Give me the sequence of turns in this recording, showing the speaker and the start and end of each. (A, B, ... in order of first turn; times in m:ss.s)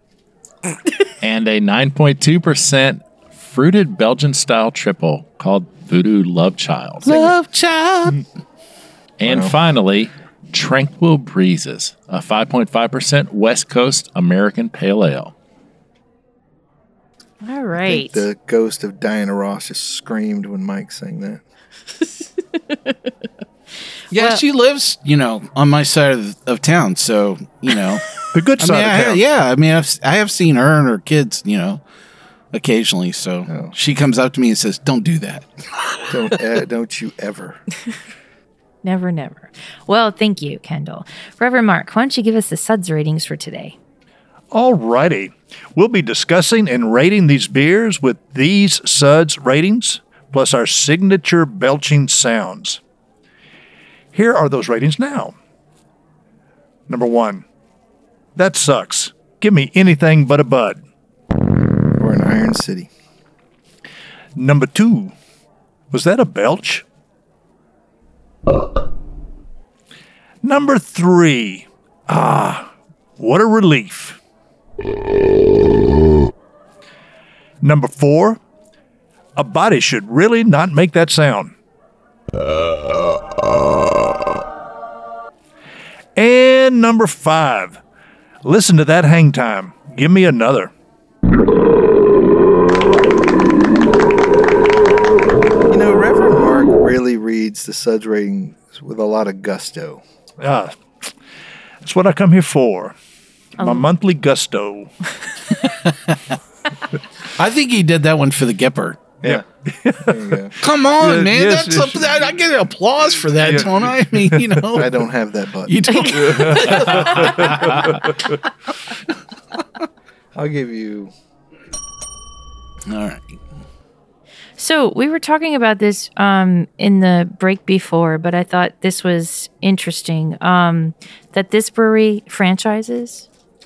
0:01.2-0:07.3 A
0:07.0-0:08.2 B
0:09.2-0:15.3 A
0:09.2-0:09.5 C
0:17.4-0:18.2 D
0:17.8-0:21.4 C
0:24.1-0:31.8 B
0:24.1-0:24.4 D
0:28.3-0:29.2 E
0:32.5-0:36.0 B
0:33.5-0:33.7 C
0:36.1-0:37.6 C
0:38.8-0:43.8 D
0:44.5-0:52.8 E
0:54.1-0:55.3 E
0:56.9-0:57.4 E
0:58.4-1:00.8 E
1:02.0-1:02.9 C
1:04.4-1:05.1 E
1:05.9-1:06.8 E
1:10.4-1:14.2 E
1:17.6-1:18.4 E
1:19.4-1:21.5 E
1:26.2-1:27.8 E
1:28.4-1:30.7 E
1:35.7-1:40.0 C
1:40.4-1:40.8 E
1:41.8-1:43.0 E
1:43.6-1:44.9 E
1:43.6-1:43.9 D
1:45.8-1:46.2 B
1:47.4-1:49.2 B
1:49.2-1:50.2 E
1:50.0-1:50.5 C
1:50.6-1:54.9 B
1:51.0-1:52.3 E
1:53.4-1:54.6 E
1:54.8-1:55.9 C
1:55.7-1:58.0 B
1:56.2-1:58.2 E
2:00.4-2:01.1 C
2:02.9-2:03.4 B
2:04.6-2:13.3 D